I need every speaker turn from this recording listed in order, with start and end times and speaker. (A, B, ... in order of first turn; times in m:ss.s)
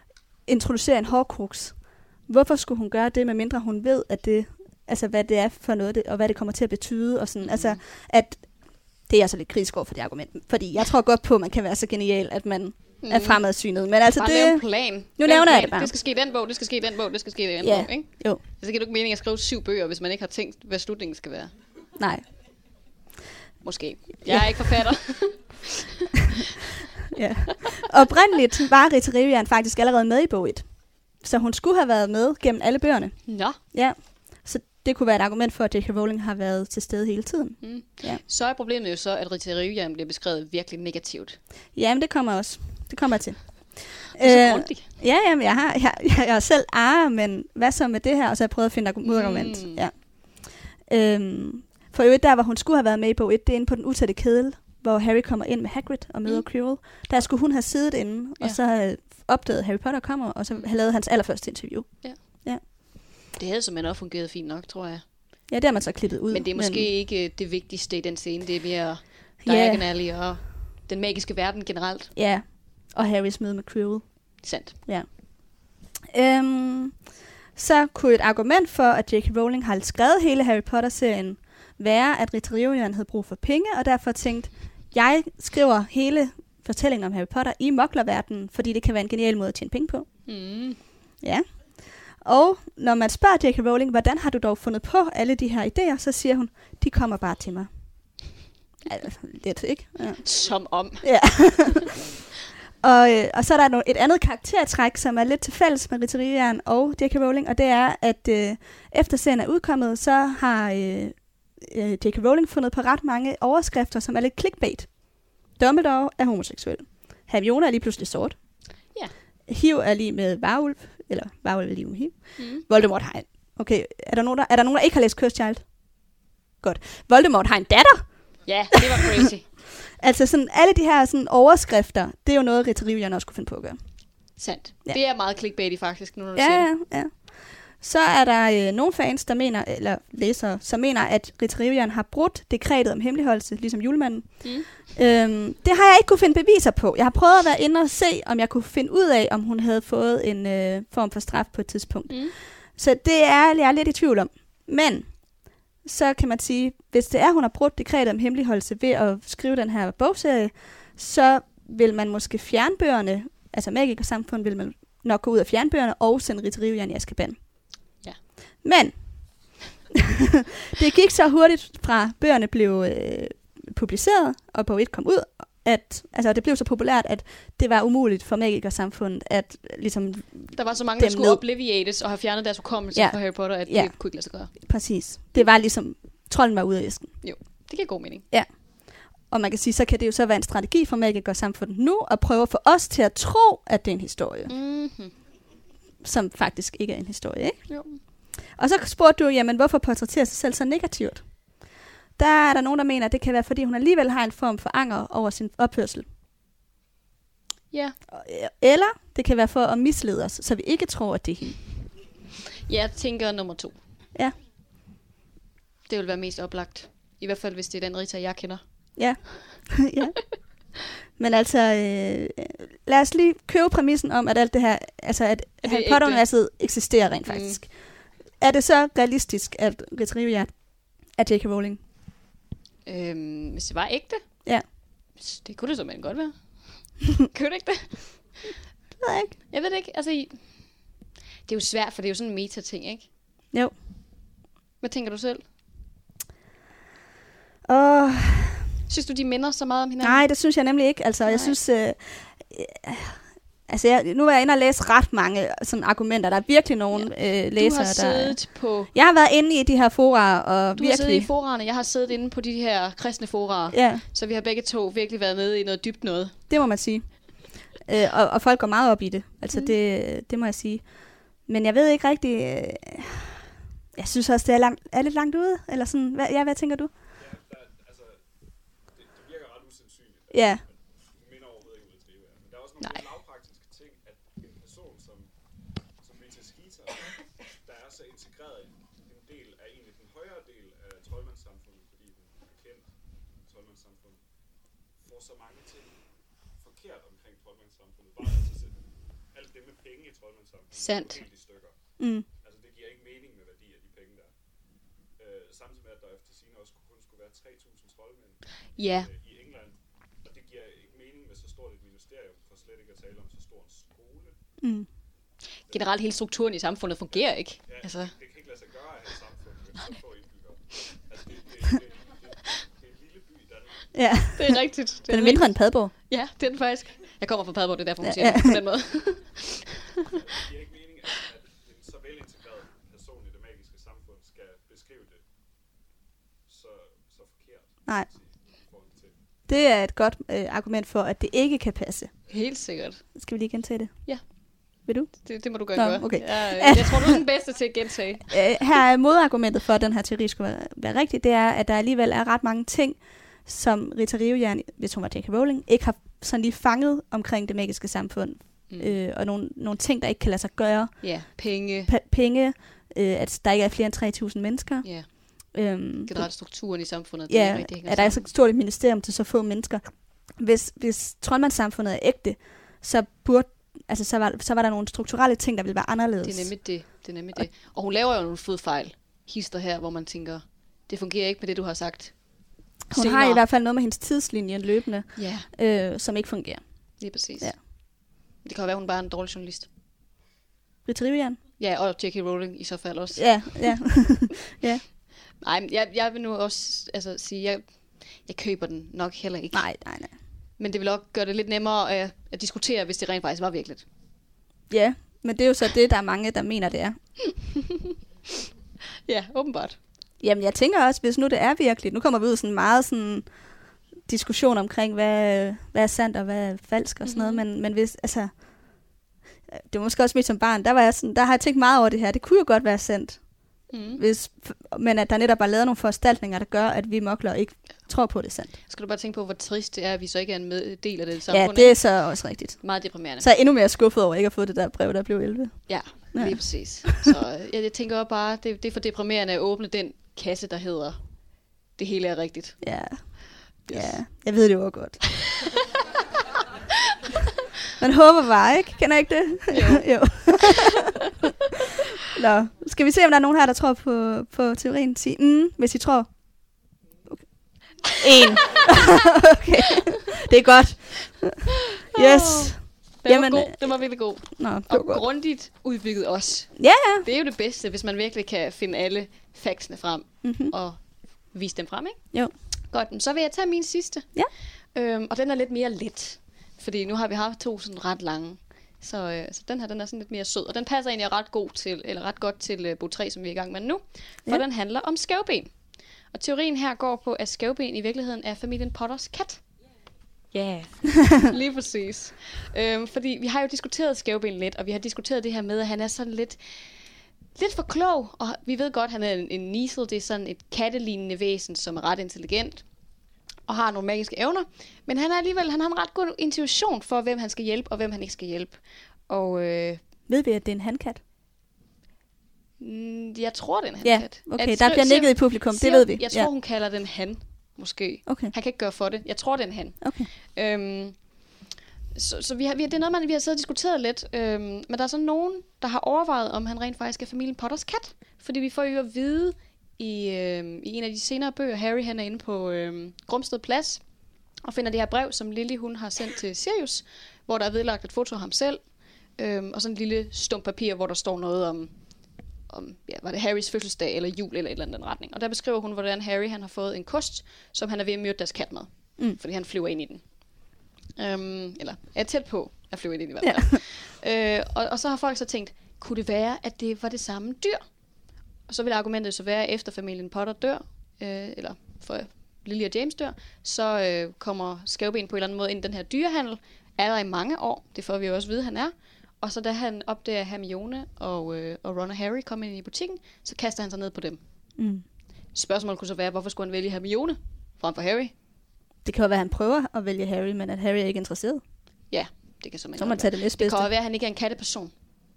0:00.5-0:08.5 A
0:07.4-0:07.8 B
0:09.0-0:15.9 A
0:13.0-0:13.4 B
0:14.1-0:21.5 B
0:17.6-0:18.4 A
0:22.0-0:22.2 A
0:23.6-0:26.1 B
0:24.3-0:24.8 A
0:27.1-0:38.2 A
0:33.3-0:33.6 B
0:37.6-0:41.4 B
0:41.8-1:02.6 A
0:44.2-0:44.9 B
0:49.0-0:49.8 B
1:02.0-1:02.4 B
1:03.4-1:05.0 B
1:05.5-1:06.9 A
1:06.3-1:12.1 B
1:09.4-1:09.9 A
1:12.1-1:30.1 A
1:14.4-1:14.8 B
1:30.3-1:30.8 B
1:32.1-1:37.7 A
1:38.9-1:40.2 A
1:40.2-1:41.1 B
1:41.0-1:42.0 A
1:42.8-1:58.4 A
1:59.5-2:05.6 A
2:02.4-2:02.6 B
2:06.6-2:08.1 A
2:08.5-2:09.5 B
2:08.8-2:09.1 A
2:10.0-2:13.8 A
2:14.4-2:16.7 B
2:16.4-2:35.3 A
2:24.4-2:24.7 B
2:32.1-2:32.4 B
2:35.8-2:47.4 A
2:48.6-2:49.6 A
2:50.3-3:01.4 A
3:00.5-3:04.6 B
3:02.9-3:03.9 A
3:04.5-3:07.1 A
3:07.2-3:08.2 B
3:08.3-3:14.5 A
3:14.5-3:15.1 B
3:16.0-3:17.7 A
3:17.7-3:18.0 B
3:18.6-3:21.3 A
3:22.2-3:26.1 A
3:28.1-3:31.6 A
3:32.6-3:33.8 B
3:35.9-3:38.6 B
3:39.0-3:40.1 A
3:41.2-3:47.7 A
3:45.6-3:46.3 B
3:47.3-3:47.6 B
3:48.4-3:51.8 A
3:52.9-3:54.2 B
3:55.2-3:58.5 B
3:59.0-3:59.4 A
3:59.5-4:00.7 B
4:01.5-4:03.1 B
4:04.8-4:05.4 B
4:07.6-4:08.7 A
4:08.9-4:10.2 B
4:10.0-4:21.3 A
4:11.2-4:11.6 B
4:16.9-4:18.9 B
4:20.8-4:26.4 B
4:23.7-4:24.0 A
4:26.5-4:33.4 A
4:33.9-4:36.9 A
4:37.2-4:38.3 C
4:38.9-4:45.3 C
4:40.3-4:40.6 A
4:46.0-4:54.2 C
4:55.0-4:56.0 C
4:56.6-5:04.3 C
5:00.8-5:01.2 B
5:02.0-5:02.2 A
5:05.2-5:14.4 C
5:08.8-5:09.1 B
5:14.6-5:14.9 A
5:15.7-5:16.0 C
5:15.7-5:18.1 B
5:17.1-5:24.6 C
5:23.9-5:24.6 A
5:24.4-5:29.6 B
5:25.1-5:25.9 A
5:28.0-5:28.6 A
5:30.0-5:35.2 C
5:36.5-5:39.2 C
5:39.5-5:42.1 A
5:42.3-5:43.0 B
5:43.1-5:44.2 A
5:44.9-5:47.2 A
5:45.2-5:48.4 B
5:48.3-6:01.3 A
5:58.7-5:59.0 B
6:01.0-6:01.9 B
6:01.9-6:06.3 A
6:04.8-6:05.5 B
6:06.1-6:08.3 B
6:07.3-6:16.5 A
6:16.2-6:22.2 B
6:22.9-6:26.6 A
6:22.9-6:23.4 B
6:25.2-6:25.5 B
6:27.0-6:27.8 B
6:28.4-6:29.7 B
6:30.9-6:31.4 A
6:31.6-6:33.8 B
6:33.2-6:34.8 A
6:35.4-6:39.7 B
6:39.5-6:40.1 A
6:40.6-6:43.9 B
6:44.7-6:47.0 A
6:47.6-6:47.9 B
6:49.1-6:49.8 B
6:50.2-6:53.3 A
6:54.1-6:58.8 A
6:57.0-6:57.4 B
6:59.5-7:03.2 A
7:03.7-7:04.0 B
7:04.0-7:08.5 A
7:08.7-7:11.8 B
7:11.3-7:17.1 A
7:12.6-7:13.3 B
7:15.7-7:21.0 B
7:21.8-7:22.6 B
7:22.6-7:25.2 A
7:23.6-7:24.0 B
7:27.8-7:31.2 A
7:29.5-7:30.9 B
7:32.1-7:36.1 A
7:37.9-7:43.6 A
7:41.9-7:52.0 B
7:44.3-7:45.0 A
7:46.6-7:47.0 A
7:50.2-7:50.5 A
7:52.7-7:54.1 B
7:54.7-8:05.5 B
8:06.1-8:09.4 B
8:10.3-8:16.7 B
8:17.4-8:22.6 B
8:23.5-8:29.8 B
8:30.1-8:31.0 A
8:32.6-8:41.0 B
8:33.8-8:36.3 A
8:38.1-8:38.3 A
8:39.8-8:40.1 A
8:41.9-8:53.8 B
8:54.4-8:58.6 B
8:59.2-9:01.7 B
9:02.5-9:10.0 B
9:11.0-9:17.6 B
9:18.5-9:34.2 B
9:34.6-9:34.8 A
9:35.3-9:38.1 B
9:38.8-9:41.4 A
9:41.9-9:44.7 B
9:42.8-9:43.6 A